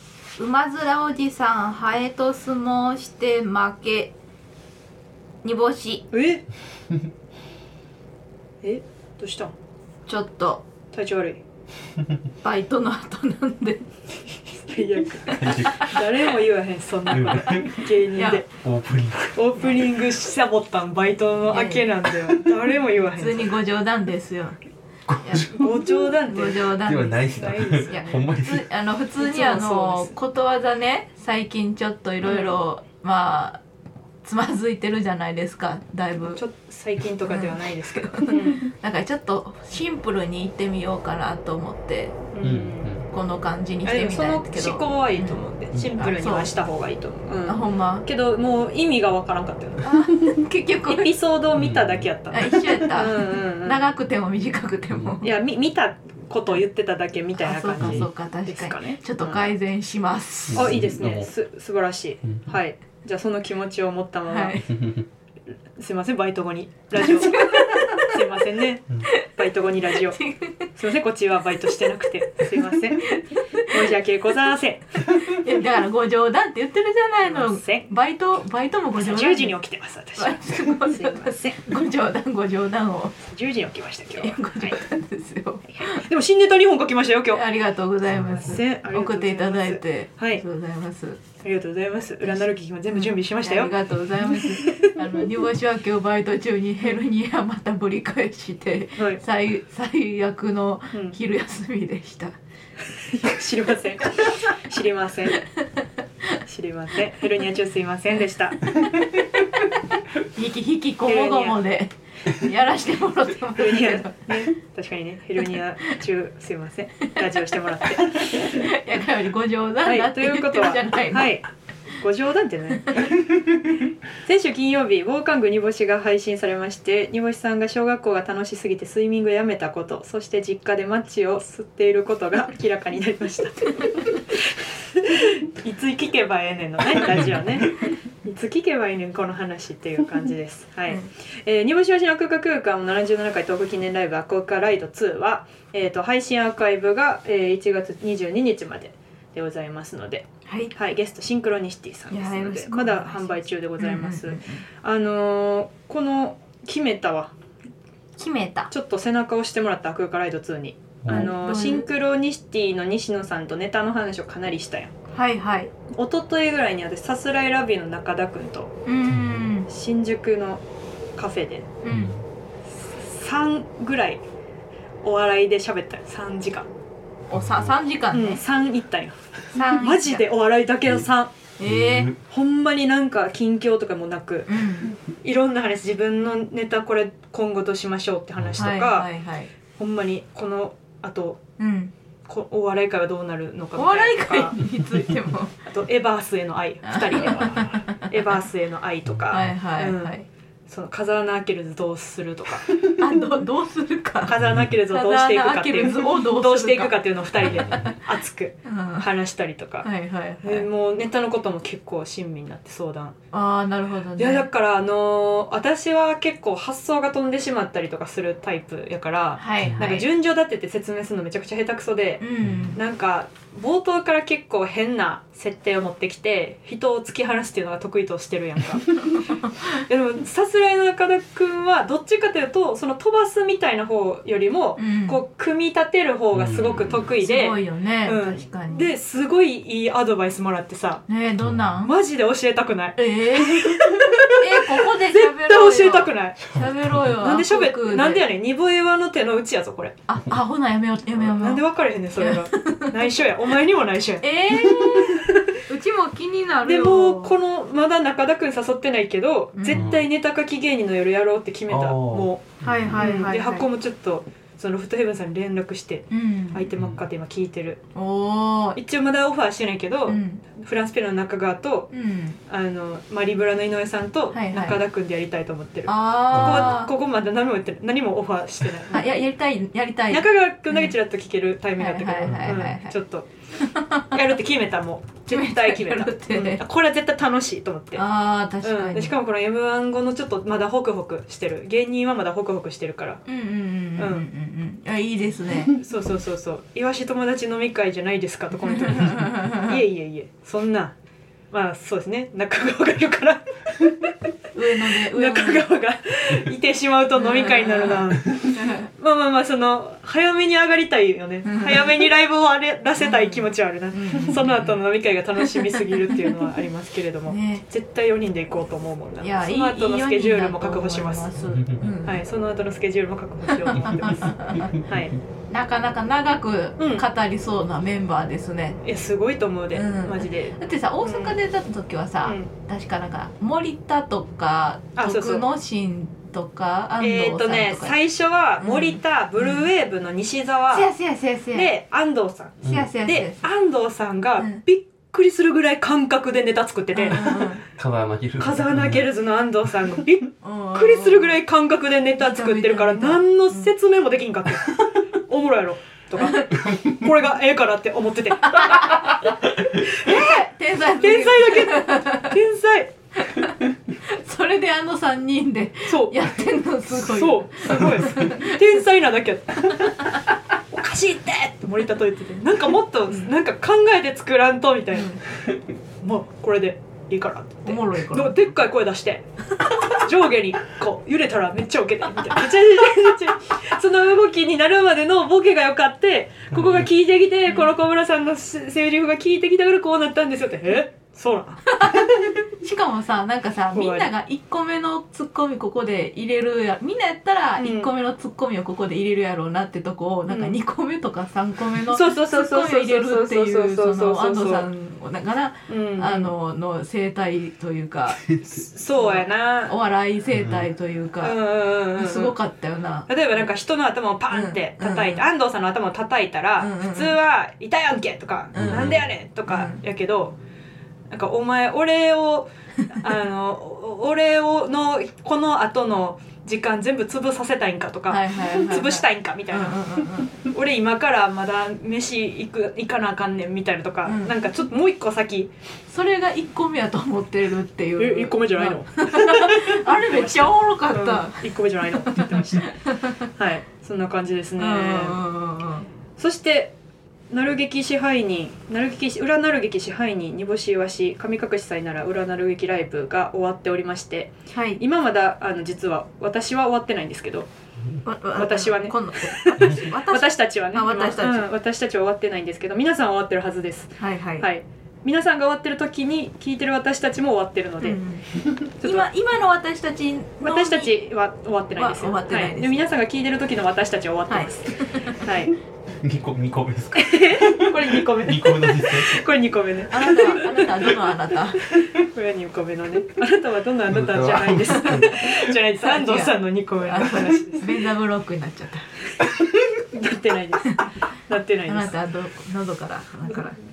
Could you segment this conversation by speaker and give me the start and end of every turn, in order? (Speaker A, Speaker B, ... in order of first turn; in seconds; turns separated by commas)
Speaker A: 0.4-4.1, Speaker A: 5.4-6.0, Speaker B: 6.1-6.4, Speaker B: 8.6-9.5, Speaker A: 10.1-10.6, Speaker B: 10.9-11.4, Speaker A: 12.4-13.8, Speaker B: 14.7-18.5, Speaker A: 15.3-16.0, Speaker C: 15.3-15.9, Speaker C: 17.1-17.8, Speaker A: 17.4-18.4, Speaker C: 18.6-19.4, Speaker B: 19.3-23.5, Speaker A: 21.5-21.9, Speaker A: 23.1-24.6, Speaker C: 25.1-25.8, Speaker A: 25.2-33.6, Speaker B: 25.4-28.3, Speaker C: 26.7-28.6, Speaker B: 29.2-30.1, Speaker B: 32.2-32.6, Speaker A: 34.2-36.4, Speaker B: 36.3-38.7, Speaker A: 37.2-42.2, Speaker B: 42.3-42.9, Speaker C: 42.4-43.1, Speaker A: 43.1-45.4, Speaker B: 43.8-50.0, Speaker C: 45.7-46.0, Speaker A: 46.0-46.5, Speaker A: 47.5-48.0, Speaker A: 49.8-51.1, Speaker B: 50.9-53.8, Speaker C: 51.5-52.1, Speaker A: 52.3-55.3, Speaker B: 55.2-59.5, Speaker A: 57.4-60.8, Speaker C: 57.8-58.0, Speaker C: 60.5-61.3, Speaker B: 60.5-64.6, Speaker A: 64.3-64.9, Speaker C: 64.7-65.0, Speaker B: 65.8-70.2, Speaker A: 67.0-68.5, Speaker A: 69.0-69.3, Speaker A: 69.9-70.7, Speaker B: 70.7-75.2, Speaker A: 71.6-73.9, Speaker A: 75.2-79.6, Speaker B: 77.2-77.9, Speaker B: 79.0-81.7, Speaker A: 80.2-83.2, Speaker B: 83.3-84.8, Speaker A: 84.1-86.1, Speaker B: 85.7-87.4, Speaker A: 87.3-91.2, Speaker C: 88.1-88.5, Speaker B: 88.2-90.4, Speaker B: 91.4-95.0, Speaker A: 92.2-102.3, Speaker B: 99.0-99.2, Speaker B: 102.9-105.4, Speaker A: 105.3-106.4, Speaker B: 106.4-108.7, Speaker A: 108.6-114.5, Speaker B: 111.0-111.6, Speaker B: 113.5-118.7, Speaker A: 117.2-121.3, Speaker B: 119.8-123.2, Speaker A: 122.8-123.1, Speaker B: 124.1-157.3, Speaker C: 136.9-137.7, Speaker A: 150.4-150.7, Speaker A: 152.1-154.6, Speaker A: 158.2-158.7, Speaker B: 158.7-164.9, Speaker C: 161.0-161.3, Speaker A: 161.1-161.9, Speaker A: 165.1-165.7, Speaker B: 165.9-168.7, Speaker A: 168.8-169.7, Speaker C: 169.1-169.4, Speaker B: 169.7-170.6, Speaker B: 171.2-171.7, Speaker A: 171.8-172.1, Speaker C: 171.9-172.2, Speaker B: 172.8-174.2, Speaker B: 175.0-176.7, Speaker A: 177.3-178.4, Speaker C: 177.3-177.7, Speaker B: 178.1-181.3, Speaker A: 179.5-180.2, Speaker A: 181.6-182.1, Speaker C: 181.6-182.2, Speaker B: 182.3-184.6, Speaker A: 184.5-184.9, Speaker B: 185.2-189.1, Speaker A: 188.6-189.5, Speaker B: 189.7-191.4, Speaker A: 191.6-191.9, Speaker B: 192.3-194.6, Speaker A: 193.8-195.5, Speaker B: 195.6-200.1, Speaker A: 196.8-198.1, Speaker A: 199.3-200.3, Speaker B: 200.7-202.7, Speaker A: 203.0-207.9, Speaker B: 204.2-209.9, Speaker C: 204.4-204.7, Speaker A: 208.6-209.1, Speaker A: 209.8-210.7, Speaker B: 210.4-213.2, Speaker A: 213.3-214.5, Speaker B: 214.2-241.0, Speaker A: 219.4-220.1, Speaker A: 222.2-222.8, Speaker A: 229.1-229.5, Speaker A: 234.8-235.2, Speaker C: 236.3-237.1, Speaker A: 237.2-238.9, Speaker A: 241.1-241.9, Speaker C: 241.4-241.7, Speaker B: 241.8-246.4, Speaker A: 243.0-248.2, Speaker C: 246.5-247.0, Speaker B: 247.2-249.9, Speaker A: 250.1-251.6, Speaker B: 251.2-255.6, Speaker A: 252.2-253.1, Speaker A: 254.2-257.3, Speaker B: 256.6-262.4, Speaker A: 259.5-259.9, Speaker C: 259.7-260.1, Speaker C: 261.7-263.0, Speaker A: 262.6-263.7, Speaker B: 263.0-267.8, Speaker A: 266.1-266.7, Speaker C: 266.7-267.0, Speaker A: 267.9-268.8, Speaker B: 268.7-271.9, Speaker A: 270.1-270.4, Speaker A: 271.9-272.4, Speaker B: 272.4-279.0, Speaker A: 274.3-274.8, Speaker A: 275.9-276.9, Speaker C: 276.3-276.8, Speaker A: 278.9-280.9, Speaker B: 280.1-283.3, Speaker A: 281.8-282.9, Speaker A: 283.6-284.4, Speaker B: 284.1-288.0, Speaker A: 285.3-286.6, Speaker A: 287.9-289.1, Speaker B: 288.6-293.2, Speaker A: 293.2-295.7, Speaker B: 294.0-294.3, Speaker B: 295.8-300.9, Speaker A: 298.6-299.8, Speaker B: 301.5-304.1, Speaker A: 304.5-305.6, Speaker B: 304.8-321.3, Speaker A: 307.1-308.9, Speaker A: 311.4-312.1, Speaker A: 313.0-314.8, Speaker A: 315.4-315.8, Speaker A: 317.3-317.6, Speaker A: 319.2-322.2, Speaker C: 321.4-321.9, Speaker B: 322.0-325.1, Speaker A: 323.5-324.8, Speaker A: 325.5-328.8, Speaker B: 326.8-327.0, Speaker B: 328.8-331.4, Speaker A: 329.7-338.0, Speaker B: 332.2-332.5, Speaker B: 334.9-335.5, Speaker B: 337.0-340.9, Speaker A: 338.6-339.7, Speaker A: 340.7-341.7, Speaker B: 341.5-347.5, Speaker A: 342.6-343.5, Speaker A: 346.9-347.6, Speaker C: 347.8-349.1, Speaker B: 348.4-362.9, Speaker A: 350.4-351.4, Speaker A: 352.1-353.7, Speaker A: 356.2-356.6, Speaker A: 358.4-362.4, Speaker A: 363.2-368.7, Speaker B: 365.9-370.2, Speaker A: 369.6-370.2, Speaker B: 370.7-375.2, Speaker A: 374.9-375.2, Speaker B: 376.0-379.3, Speaker A: 377.6-378.3, Speaker B: 379.8-392.4, Speaker C: 386.5-386.9, Speaker A: 391.7-408.3, Speaker B: 393.7-394.1, Speaker B: 397.6-397.9, Speaker B: 400.3-400.5, Speaker B: 401.9-404.7, Speaker B: 405.7-406.3, Speaker B: 408.4-409.8, Speaker A: 408.9-413.1, Speaker C: 410.3-410.6, Speaker B: 411.2-412.4, Speaker B: 413.1-420.3, Speaker A: 414.3-415.2, Speaker A: 416.6-417.2, Speaker A: 418.5-419.8, Speaker C: 418.6-419.0, Speaker B: 421.1-435.5, Speaker A: 428.1-430.3, Speaker A: 434.0-434.4, Speaker A: 435.9-443.3, Speaker B: 438.0-442.7, Speaker B: 443.3-445.2, Speaker A: 444.6-445.9, Speaker B: 446.2-446.7, Speaker B: 447.3-457.5, Speaker A: 454.5-454.8, Speaker A: 458.0-461.5, Speaker B: 458.4-468.0, Speaker A: 464.0-464.5, Speaker A: 467.8-468.2, Speaker B: 468.8-469.1, Speaker A: 468.8-470.9, Speaker B: 470.4-475.5, Speaker A: 471.7-472.8, Speaker A: 474.3-475.3, Speaker C: 476.0-479.3, Speaker B: 476.9-480.9, Speaker A: 479.9-481.7, Speaker B: 481.7-487.7, Speaker C: 483.9-485.4, Speaker A: 484.8-488.9, Speaker B: 489.9-491.9, Speaker A: 491.6-493.6